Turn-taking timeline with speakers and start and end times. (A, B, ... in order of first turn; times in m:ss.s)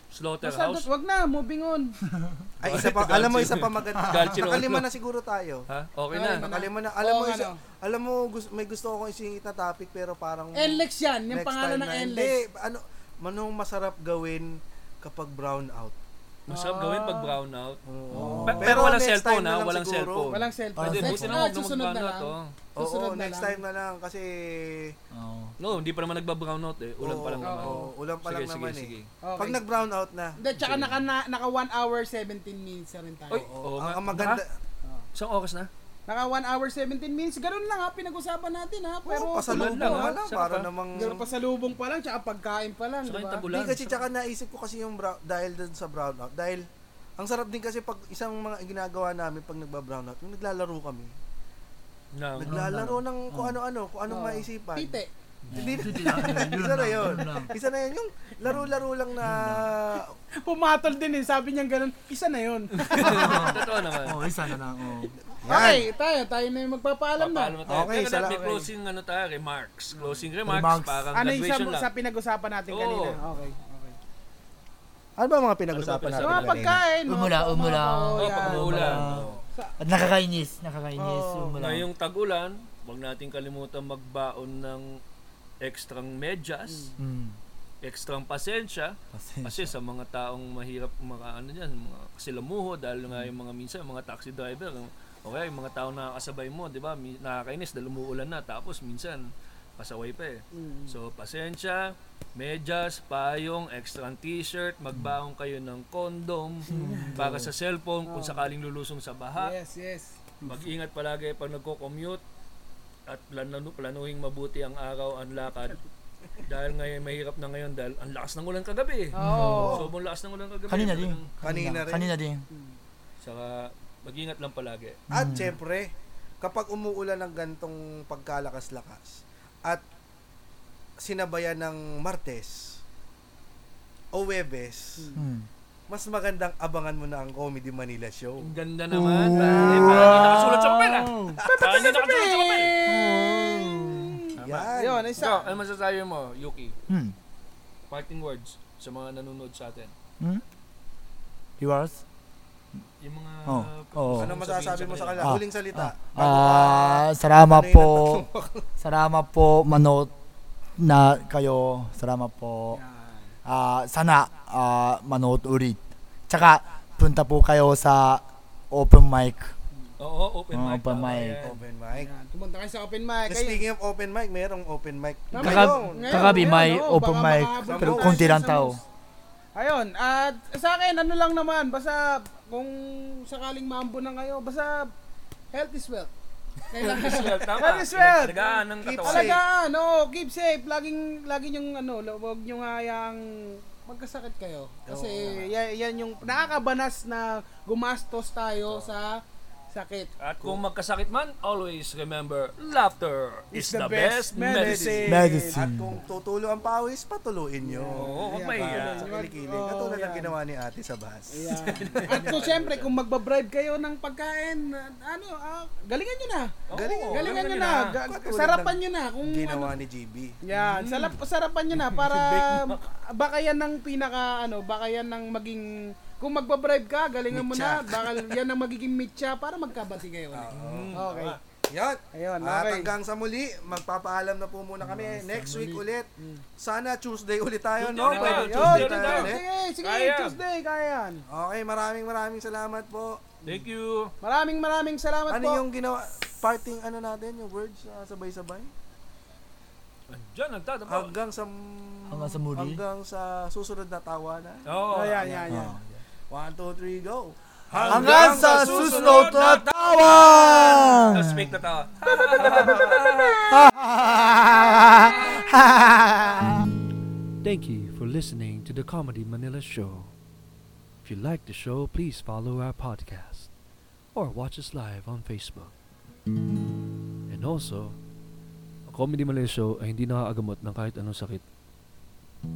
0:00.1-0:00.9 A
0:00.4-0:02.0 B
0:02.1-0:02.5 C
0:02.6-0:05.6 D
0:02.6-0:04.9 A
0:04.0-0:04.4 C
0:05.7-0:06.5 A
0:06.1-0:07.6 B
0:06.4-0:16.0 D
0:10.6-0:12.4 B
0:16.5-0:17.8 A
0:16.5-0:17.4 B
0:17.9-0:20.3 D
0:18.1-0:18.9 C
0:18.4-0:22.5 A
0:20.3-0:23.6 B
0:20.8-0:21.5 C
0:22.8-0:25.0 D
0:25.1-0:25.6 C
0:25.6-0:29.1 A
0:27.0-0:30.4 D
0:27.4-0:27.9 B
0:29.2-0:29.6 B
0:30.4-0:33.5 B
0:30.6-0:31.0 A
0:33.3-0:34.4 A
0:33.4-0:34.5 D
0:35.2-0:35.7 A
0:36.1-0:40.2 B
0:39.1-0:41.2 D
0:39.5-0:41.2 A
0:41.0-0:43.4 B
0:43.0-0:44.1 A
0:43.5-0:46.6 D
0:47.2-0:51.1 D
0:52.2-0:52.6 A
0:52.4-0:55.0 D
0:52.4-0:53.6 C
0:54.1-0:55.1 B
0:55.4-0:56.0 A
0:55.5-0:57.5 C
0:55.5-1:00.1 D
0:56.0-0:56.5 B
0:57.1-0:57.4 B
0:58.4-0:59.7 C
1:00.4-1:03.6 B
1:02.8-1:04.3 A
1:02.9-1:05.2 C
1:05.4-1:05.9 D
1:05.5-1:07.6 B
1:07.2-1:11.9 A
1:07.7-1:08.7 D
1:10.4-1:11.1 C
1:11.2-1:14.0 B
1:12.7-1:13.2 A
1:15.2-1:16.8 D
1:15.7-1:16.8 A
1:16.2-1:19.7 B
1:17.1-1:21.9 C
1:18.2-1:19.4 A
1:21.0-1:21.6 B
1:21.6-1:25.0 A
1:25.6-1:26.9 A
1:26.7-1:26.9 B
1:27.0-1:27.4 C
1:27.8-1:49.6 A
1:29.1-1:29.7 C
1:40.5-1:41.0 B
1:46.7-1:47.5 C
1:46.7-1:47.2 B
1:48.1-1:48.5 B
1:49.4-1:50.2 B
1:50.4-1:50.7 C
1:50.4-1:52.2 A
1:53.1-1:55.8 A
1:56.4-2:01.3 A
1:59.1-1:59.8 B
1:59.2-1:59.8 C
1:59.5-1:59.8 D
2:00.7-2:02.4 C
2:01.4-2:02.1 D
2:02.5-2:02.8 B
2:03.2-2:05.0 A
2:05.1-2:05.6 C
2:05.1-2:09.8 D
2:11.0-2:12.8 D
2:14.1-2:15.1 D
2:15.0-2:15.2 B
2:15.2-2:15.5 C
2:15.9-2:18.5 D
2:18.4-2:22.7 A
2:18.9-2:21.4 C
2:19.6-2:20.2 D
2:21.4-2:25.5 B
2:22.9-2:24.7 C
2:24.4-2:25.2 D
2:25.2-2:26.8 A
2:26.9-2:27.2 C
2:27.9-2:29.9 A
2:31.6-2:32.0 C
2:33.0-2:35.4 A
2:33.5-2:34.4 C
2:34.1-2:38.6 D
2:35.2-2:38.3 C
2:38.8-2:40.1 C
2:40.8-2:42.8 C
2:42.7-2:43.3 B
2:43.4-2:45.8 C
2:46.3-2:49.5 C
2:50.0-2:51.6 A
2:50.5-2:51.4 C
2:51.4-2:52.1 D
2:52.0-2:53.6 B
2:53.3-2:56.5 D
2:55.3-2:58.8 B
2:55.4-2:58.8 C
2:57.7-2:58.3 D
2:59.6-3:04.9 B
3:05.5-3:06.1 B
3:06.7-3:19.2 B
3:06.8-3:09.4 A
3:08.8-3:09.4 D
3:14.9-3:15.5 D
3:19.7-3:20.1 B
3:20.2-3:25.2 A
3:23.5-3:25.7 B
3:24.5-3:32.4 D
3:25.1-3:26.0 C
3:27.6-3:30.3 B
3:28.0-3:29.1 A
3:31.3-3:39.7 B
3:31.6-3:32.9 A
3:36.7-3:38.0 A
3:36.7-3:37.4 D
3:38.1-3:40.4 D
3:40.4-3:51.4 B
3:40.5-3:41.2 A
3:41.7-3:42.8 A
3:47.3-3:48.3 D
3:50.3-3:51.0 D
3:50.5-3:51.4 A
3:51.7-3:56.1 D
3:52.1-3:52.9 B
3:54.8-3:55.8 C
3:56.2-3:56.4 B
3:56.6-3:59.4 D
3:57.8-4:00.4 A
3:58.0-4:01.2 B
4:01.3-4:03.4 D
4:03.4-4:04.1 A
4:04.2-4:05.6 B
4:05.3-4:08.7 D
4:10.1-4:11.2 A
4:10.9-4:14.6 D
4:12.1-4:12.8 C
4:14.7-4:15.4 A
4:14.9-4:15.8 B
4:15.5-4:15.8 C
4:16.3-4:19.5 D
4:17.7-4:23.5 A
4:17.9-4:21.5 C
4:20.7-4:20.9 D
4:22.0-4:23.7 B
4:23.5-4:26.7 C
4:27.4-4:30.2 E
4:31.0-4:33.5 E
4:34.1-4:35.8 E
4:37.3-4:38.0 E
4:38.9-4:41.4 E